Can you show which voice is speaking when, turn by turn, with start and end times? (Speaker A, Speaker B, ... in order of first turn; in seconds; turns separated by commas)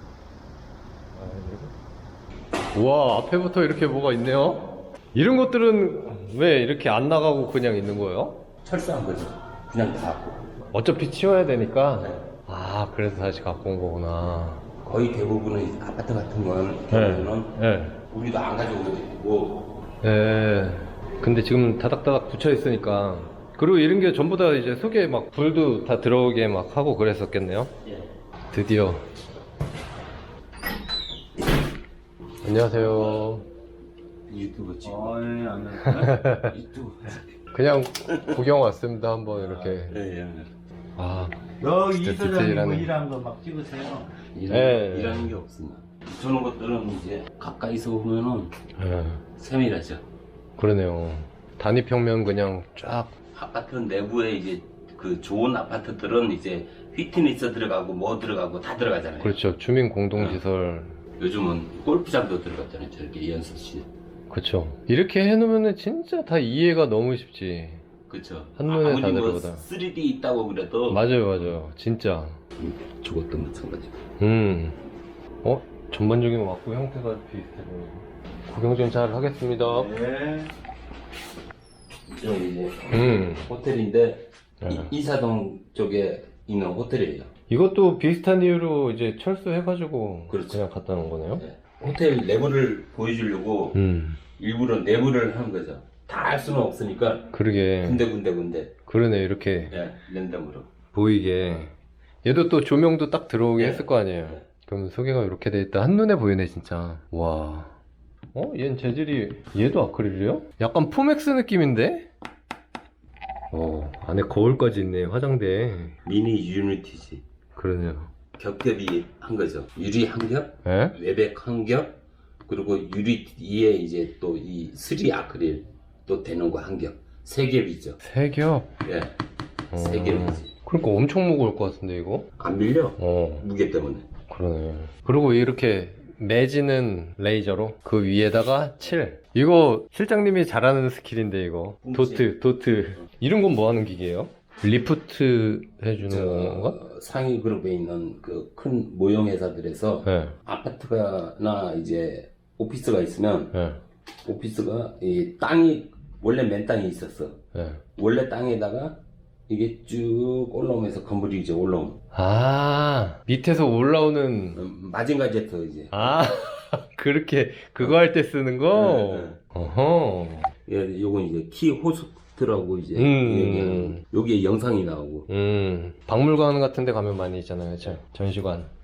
Speaker A: 1.1-1.7, Speaker A: 2.7-8.4, Speaker B: 8.6-10.4, Speaker A: 10.7-14.7, Speaker B: 14.8-17.5, Speaker A: 16.9-18.0, Speaker B: 18.1-19.6, Speaker A: 20.0-27.7, Speaker A: 28.5-29.0, Speaker A: 32.4-33.5, Speaker B: 32.9-33.2, Speaker B: 34.3-37.3, Speaker C: 35.1-36.0, Speaker A: 35.8-36.5, Speaker A: 37.5-40.0, Speaker B: 38.1-38.4, Speaker B: 39.3-40.5, Speaker A: 41.0-42.9, Speaker C: 41.8-44.0, Speaker B: 44.1-48.5, Speaker A: 44.5-45.3, Speaker A: 48.8-49.2, Speaker B: 49.4-50.0, Speaker A: 50.6-53.1, Speaker B: 53.3-59.4, Speaker A: 59.2-61.0, Speaker B: 60.1-60.4, Speaker B: 61.2-63.9, Speaker A: 64.3-67.8, Speaker B: 68.1-71.6, Speaker A: 68.6-69.6, Speaker A: 70.9-72.4, Speaker B: 72.6-74.0, Speaker A: 74.2-74.8, Speaker A: 75.4-79.9, Speaker B: 79.7-80.5, Speaker B: 82.1-87.3, Speaker A: 82.9-83.5, Speaker A: 84.6-84.9, Speaker A: 87.5-91.4, Speaker B: 90.3-90.6, Speaker B: 91.4-93.8, Speaker A: 93.7-94.2, Speaker B: 94.4-97.3, Speaker A: 97.3-98.1, Speaker B: 97.8-98.7, Speaker A: 98.8-99.8, Speaker B: 99.7-100.7, Speaker A: 100.9-107.8, Speaker B: 103.6-104.4, Speaker A: 108.3-112.1, Speaker A: 113.5-116.0, Speaker B: 116.0-117.2, Speaker A: 117.5-118.1, Speaker B: 118.3-121.9, Speaker A: 120.6-121.0, Speaker B: 122.5-128.0, Speaker A: 128.0-128.7, Speaker B: 128.8-129.1, Speaker B: 129.7-130.5, Speaker A: 129.7-132.3, Speaker B: 132.4-134.1, Speaker A: 133.0-133.4, Speaker A: 134.3-146.8, Speaker B: 141.8-142.3, Speaker B: 146.0-153.5, Speaker A: 150.0-150.3, Speaker A: 153.5-153.8, Speaker B: 154.2-157.4, Speaker A: 157.5-157.8, Speaker B: 158.0-162.0, Speaker A: 162.1-164.6, Speaker B: 164.5-166.2, Speaker A: 165.9-170.5, Speaker B: 168.7-169.4, Speaker B: 170.7-175.3, Speaker A: 172.9-174.0, Speaker A: 175.3-178.7